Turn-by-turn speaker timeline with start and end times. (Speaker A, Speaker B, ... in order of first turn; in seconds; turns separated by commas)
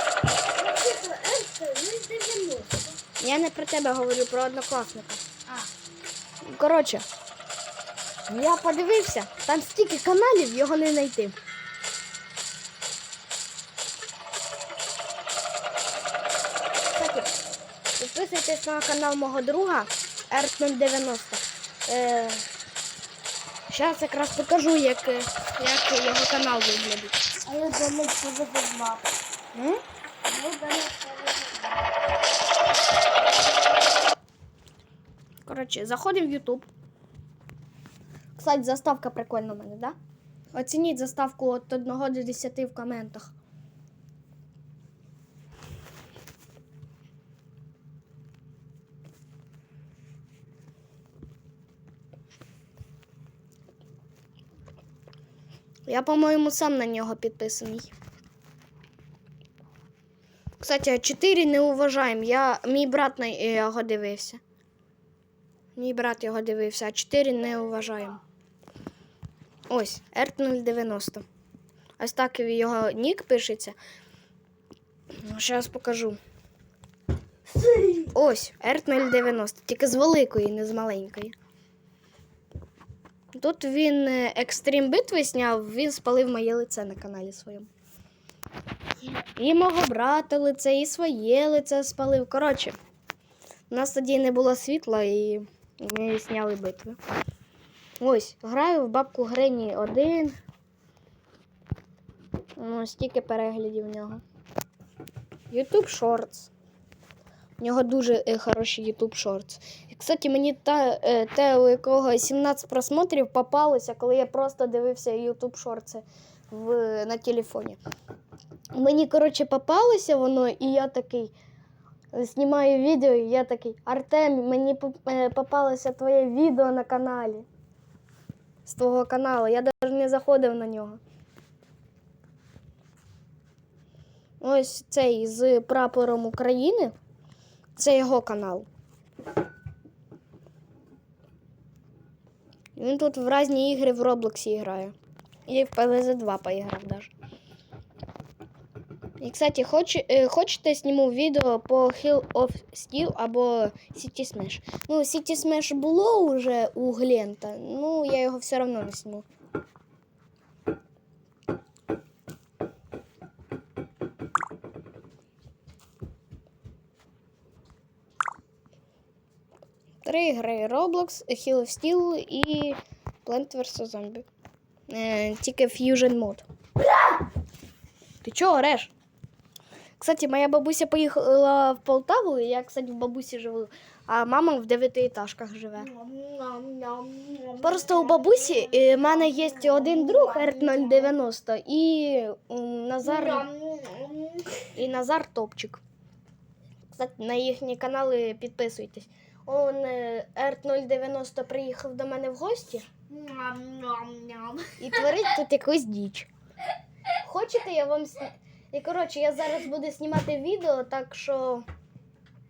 Speaker A: 0.6-2.9, Speaker B: 3.2-5.4, Speaker B: 6.4-7.0, Speaker B: 8.3-11.4, Speaker B: 16.9-17.3, Speaker B: 18.0-22.4, Speaker B: 23.7-27.2, Speaker A: 27.4-29.1, Speaker B: 29.5-29.8, Speaker A: 30.3-31.9, Speaker B: 35.5-36.7, Speaker B: 38.4-40.0, Speaker B: 40.5-43.3, Speaker B: 55.9-57.9, Speaker B: 60.6-64.4, Speaker B: 65.8-68.2, Speaker B: 69.7-71.2, Speaker B: 72.0-73.8, Speaker B: 75.2-76.2, Speaker B: 78.0-81.3, Speaker B: 83.3-87.7, Speaker B: 89.3-92.8, Speaker B: 93.7-97.0, Speaker B: 98.0-100.4, Speaker B: 102.6-104.2, Speaker B: 105.5-106.5, Speaker B: 107.6-117.8, Speaker B: 118.7-121.3, Speaker B: 122.1-127.5, Speaker B: 128.6-131.0, Speaker B: 134.4-136.9, Speaker B: 137.8-138.7, Speaker B: 142.8-144.9, Speaker B: 145.5-147.1, Speaker B: 149.2-159.2, Speaker B: 170.0-174.2, Speaker B: 174.9-176.5, Speaker B: 178.2-178.9, Speaker B: 180.0-185.9, Speaker A: 185.9-191.1, Speaker B: 187.6-193.5, Speaker A: 193.3-194.6, Speaker B: 194.7-195.8, Speaker B: 196.9-202.9, Speaker A: 203.1-204.7, Speaker B: 204.8-206.3, Speaker B: 207.2-211.7